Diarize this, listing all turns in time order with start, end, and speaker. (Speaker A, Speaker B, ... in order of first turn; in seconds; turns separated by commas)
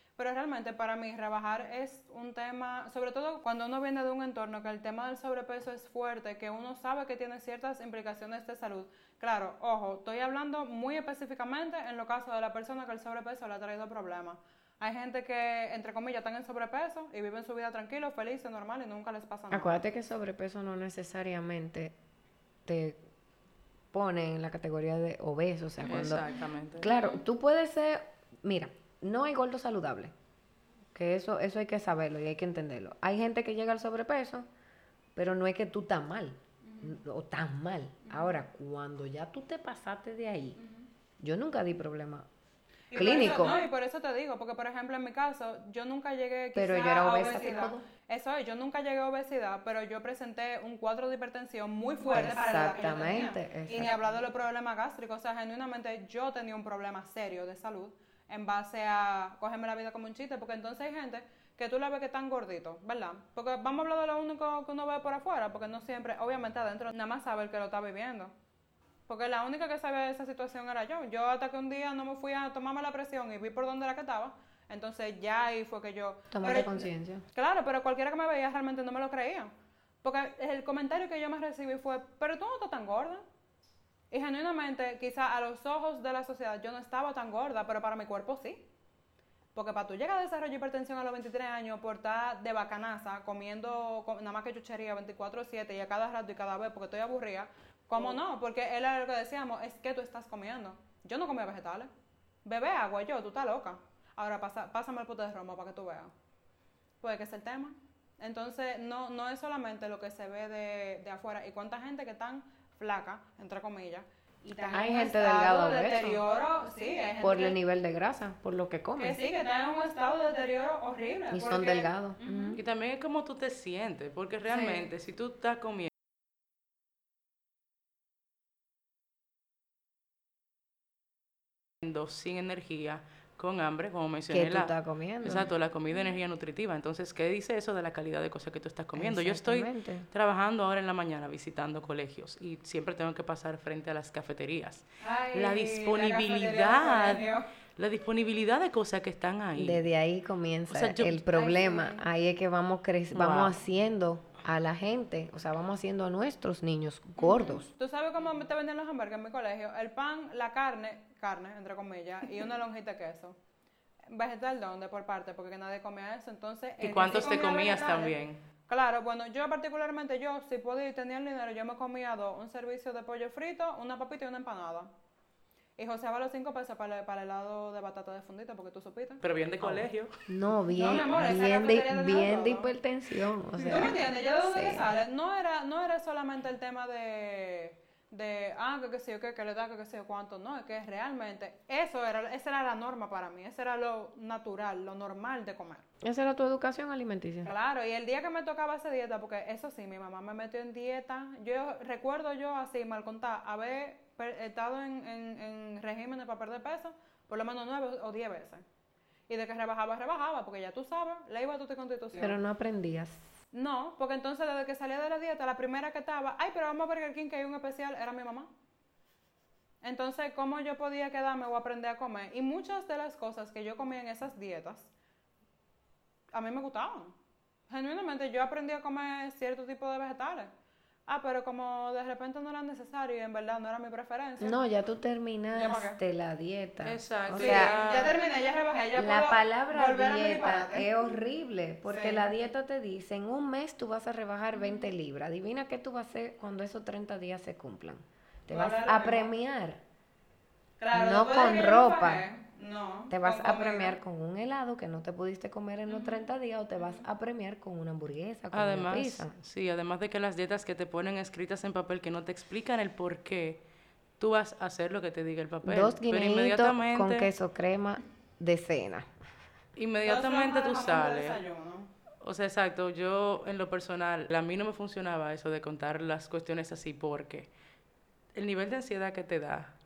Speaker A: 0.2-19.8, Speaker B: 19.5-21.9, Speaker B: 22.7-23.0, Speaker B: 23.9-30.1, Speaker C: 25.8-26.9, Speaker A: 26.3-27.2, Speaker B: 30.9-34.5, Speaker B: 35.2-40.6, Speaker A: 36.6-37.0, Speaker A: 38.0-38.5, Speaker A: 40.6-40.9, Speaker B: 41.2-42.3, Speaker A: 42.9-68.3, Speaker B: 42.9-43.6, Speaker B: 46.5-47.9, Speaker B: 52.1-54.0, Speaker A: 69.1-79.5, Speaker B: 76.3-77.2, Speaker A: 80.0-83.2, Speaker A: 84.1-88.7, Speaker A: 89.5-101.9, Speaker A: 102.5-106.1, Speaker A: 107.0-117.6, Speaker B: 114.7-116.2, Speaker B: 117.2-119.2, Speaker A: 119.0-122.6, Speaker B: 121.3-122.6, Speaker C: 122.5-125.9, Speaker A: 124.5-124.9, Speaker C: 131.8-149.8, Speaker B: 134.3-135.5, Speaker A: 135.3-135.5, Speaker B: 138.9-140.1, Speaker A: 145.0-147.5, Speaker B: 149.5-157.7, Speaker C: 150.7-151.2, Speaker A: 151.3-152.0, Speaker C: 153.1-153.6, Speaker A: 157.2-163.4, Speaker A: 164.1-168.2, Speaker C: 166.8-168.4, Speaker A: 168.7-174.9, Speaker A: 175.8-179.2, Speaker C: 179.2-180.1, Speaker B: 179.6-184.9, Speaker A: 180.7-182.7, Speaker A: 183.6-195.9, Speaker B: 196.0-197.5, Speaker A: 197.4-208.6, Speaker A: 209.3-212.4, Speaker B: 212.2-213.3, Speaker A: 213.5-218.5, Speaker A: 219.8-224.9, Speaker A: 226.3-227.2, Speaker A: 227.7-230.5, Speaker A: 231.1-234.6, Speaker B: 234.4-237.7, Speaker A: 235.5-236.0, Speaker C: 236.8-238.2, Speaker A: 237.4-240.9, Speaker B: 239.0-249.8, Speaker A: 241.9-242.3, Speaker A: 244.5-244.9, Speaker A: 248.5-249.3, Speaker A: 250.8-254.0, Speaker B: 250.9-252.2, Speaker B: 253.1-259.3, Speaker A: 255.9-256.3, Speaker A: 256.8-257.0, Speaker C: 258.5-263.6, Speaker C: 264.2-267.3, Speaker B: 265.6-269.1, Speaker C: 269.8-271.4, Speaker A: 270.0-271.9, Speaker C: 272.2-277.5, Speaker C: 278.3-279.8